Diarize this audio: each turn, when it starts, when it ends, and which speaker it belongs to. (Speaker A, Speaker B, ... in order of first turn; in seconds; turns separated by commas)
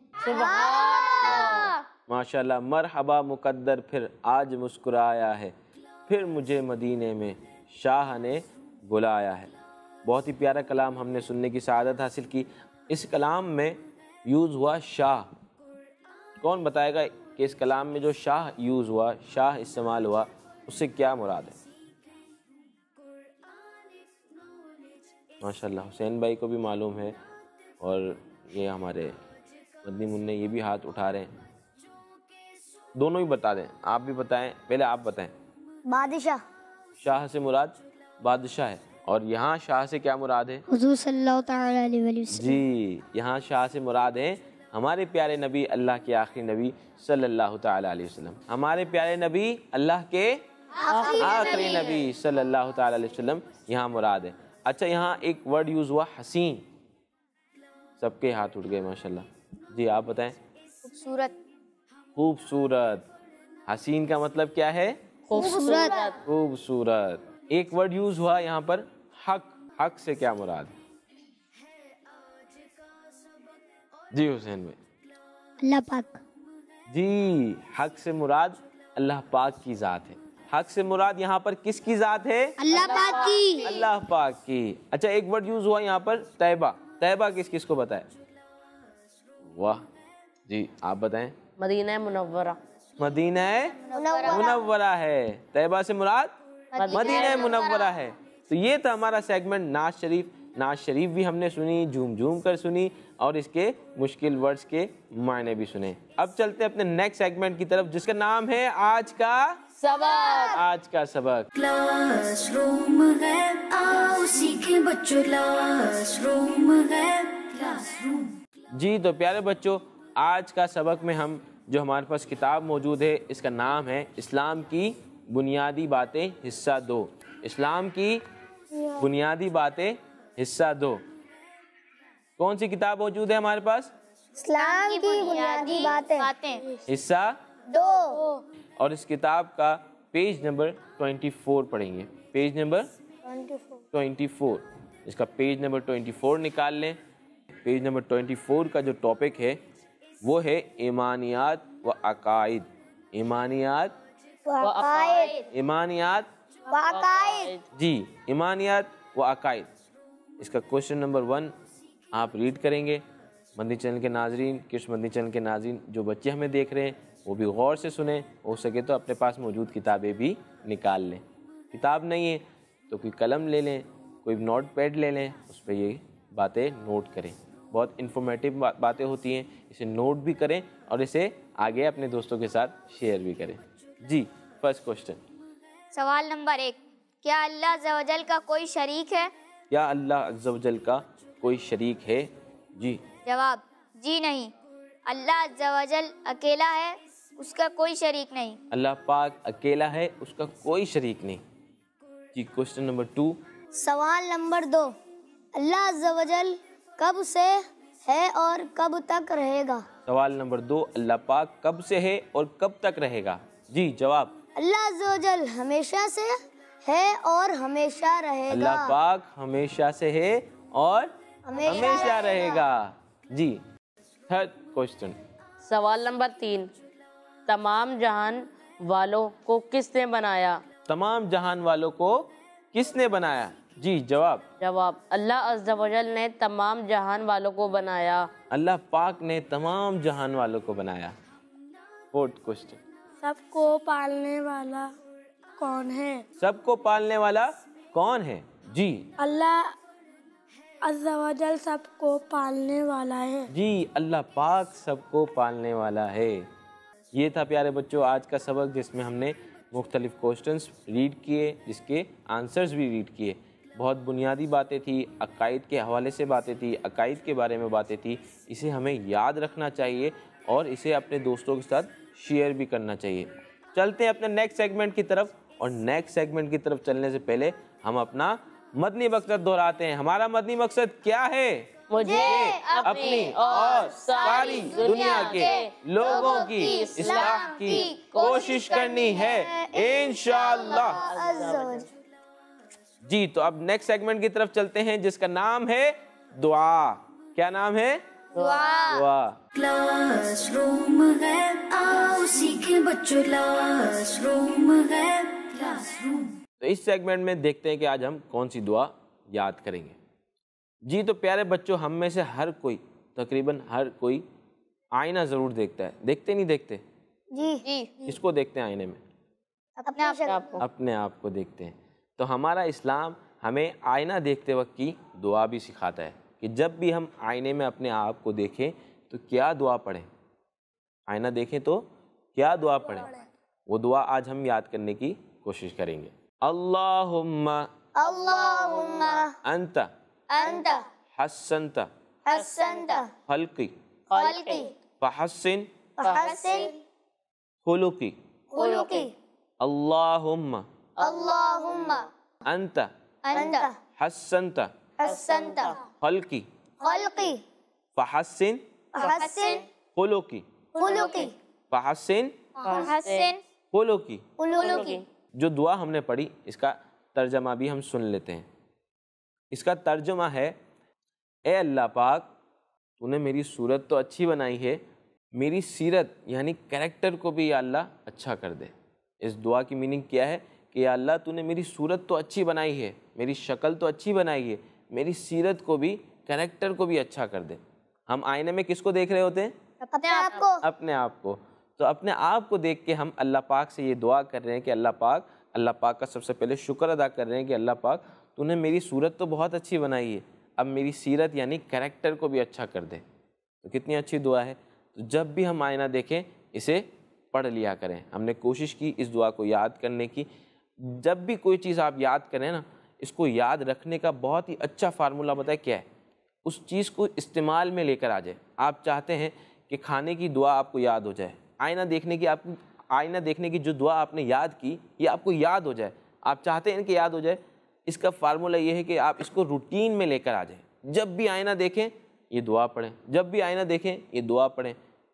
Speaker A: 0.2-1.7, Speaker B: 0.3-1.7, Speaker C: 0.5-1.7, Speaker D: 2.1-5.5, Speaker D: 6.1-9.5, Speaker D: 10.0-15.3, Speaker D: 16.4-21.6, Speaker D: 25.4-27.2, Speaker D: 27.8-29.2, Speaker D: 29.8-31.3, Speaker D: 32.9-35.3, Speaker B: 35.9-36.4, Speaker D: 37.0-40.6, Speaker E: 40.7-42.6, Speaker D: 42.3-50.4, Speaker B: 50.8-51.9, Speaker A: 50.9-51.8, Speaker C: 50.9-51.9, Speaker D: 51.1-56.6, Speaker D: 58.0-60.4, Speaker C: 60.8-61.4, Speaker D: 62.1-63.0, Speaker D: 63.7-65.0, Speaker A: 65.3-66.2, Speaker B: 65.3-66.1, Speaker E: 65.3-66.1, Speaker D: 66.2-70.7, Speaker D: 74.1-74.8, Speaker E: 75.6-76.2, Speaker D: 76.9-82.9, Speaker E: 82.6-83.8, Speaker A: 82.7-83.7, Speaker D: 83.6-88.1, Speaker D: 89.5-89.9, Speaker D: 90.5-91.4, Speaker A: 91.6-92.6, Speaker D: 93.0-96.4, Speaker C: 93.8-94.5, Speaker B: 93.9-94.6, Speaker B: 96.7-97.6, Speaker A: 96.8-97.6, Speaker C: 96.8-97.9, Speaker D: 96.9-109.6, Speaker A: 109.8-110.6, Speaker B: 110.0-110.5, Speaker D: 110.5-111.5, Speaker F: 111.5-118.4, Speaker D: 118.7-128.2, Speaker D: 129.0-131.0, Speaker D: 132.4-133.9, Speaker B: 134.4-136.3, Speaker C: 134.6-136.6, Speaker D: 136.9-137.4, Speaker B: 137.7-138.2, Speaker D: 138.8-142.9, Speaker B: 143.2-143.8, Speaker D: 143.9-147.0, Speaker D: 147.6-149.6, Speaker D: 150.2-153.9, Speaker B: 154.5-155.4, Speaker A: 154.6-155.4, Speaker D: 155.5-156.3, Speaker B: 156.7-157.5, Speaker A: 156.9-157.6, Speaker D: 157.7-159.7, Speaker D: 160.4-161.5, Speaker D: 162.1-163.0, Speaker D: 163.5-185.2, Speaker C: 185.9-189.3, Speaker D: 189.7-193.0, Speaker C: 193.2-194.5, Speaker C: 195.1-198.6, Speaker D: 198.7-201.4, Speaker D: 202.3-203.4, Speaker B: 203.8-204.9, Speaker B: 205.5-209.8, Speaker D: 210.1-214.4, Speaker B: 214.6-218.9, Speaker D: 218.5-223.6, Speaker B: 221.4-222.6, Speaker D: 224.3-225.2, Speaker A: 225.6-226.7, Speaker A: 227.5-230.6, Speaker D: 230.9-234.4, Speaker A: 234.6-238.3, Speaker D: 238.5-241.2, Speaker D: 242.1-242.8, Speaker G: 243.2-244.9, Speaker G: 245.6-246.2, Speaker D: 246.4-249.1, Speaker G: 249.2-249.7, Speaker G: 250.8-253.5, Speaker D: 253.5-256.5, Speaker D: 257.1-291.0, Speaker A: 281.9-289.1, Speaker B: 282.0-282.8, Speaker C: 282.0-289.5, Speaker B: 288.4-291.9, Speaker A: 290.6-291.9, Speaker D: 293.1-298.0, Speaker C: 298.3-299.1, Speaker A: 298.4-298.6, Speaker D: 298.9-299.4, Speaker F: 299.5-306.4, Speaker D: 306.6-309.9, Speaker D: 310.9-314.2, Speaker D: 314.9-316.8, Speaker B: 317.3-317.6, Speaker D: 318.1-319.0, Speaker B: 319.8-320.5, Speaker C: 319.9-320.3, Speaker A: 320.2-320.6, Speaker D: 320.6-330.1, Speaker D: 331.1-333.1, Speaker D: 333.7-337.7, Speaker B: 337.9-339.3, Speaker D: 339.4-339.9, Speaker C: 340.3-340.8, Speaker B: 340.4-340.8, Speaker D: 341.1-341.9, Speaker B: 342.2-343.1, Speaker C: 342.4-343.0, Speaker D: 343.3-343.8, Speaker A: 344.1-344.7, Speaker C: 344.1-344.7, Speaker D: 345.0-345.7, Speaker B: 346.0-346.8, Speaker A: 346.0-346.3, Speaker C: 346.2-346.7, Speaker D: 347.6-348.1, Speaker B: 348.5-349.1, Speaker A: 348.6-349.1, Speaker D: 349.6-350.6, Speaker B: 351.0-352.0, Speaker D: 352.4-352.9, Speaker C: 353.3-353.7, Speaker B: 353.3-353.7, Speaker D: 354.0-354.7, Speaker B: 355.0-355.8, Speaker A: 355.0-355.8, Speaker C: 355.4-355.7, Speaker D: 356.0-356.5, Speaker B: 356.8-357.4, Speaker D: 357.9-358.6, Speaker B: 358.9-359.6, Speaker A: 359.0-359.6, Speaker C: 359.0-359.6, Speaker D: 359.9-360.4, Speaker B: 360.8-361.3, Speaker A: 360.8-361.3, Speaker D: 361.7-362.4, Speaker B: 362.6-362.9, Speaker A: 362.6-363.3, Speaker C: 362.7-363.4, Speaker D: 363.7-364.2, Speaker B: 364.4-365.0, Speaker A: 364.6-365.0, Speaker D: 365.4-368.5, Speaker D: 369.5-370.6, Speaker D: 371.4-372.3, Speaker D: 373.0-374.8, Speaker D: 375.4-389.5, Speaker B: 389.9-390.6, Speaker C: 390.0-390.4, Speaker D: 390.6-403.0, Speaker D: 403.6-410.3, Speaker D: 410.8-415.9, Speaker D: 416.4-434.8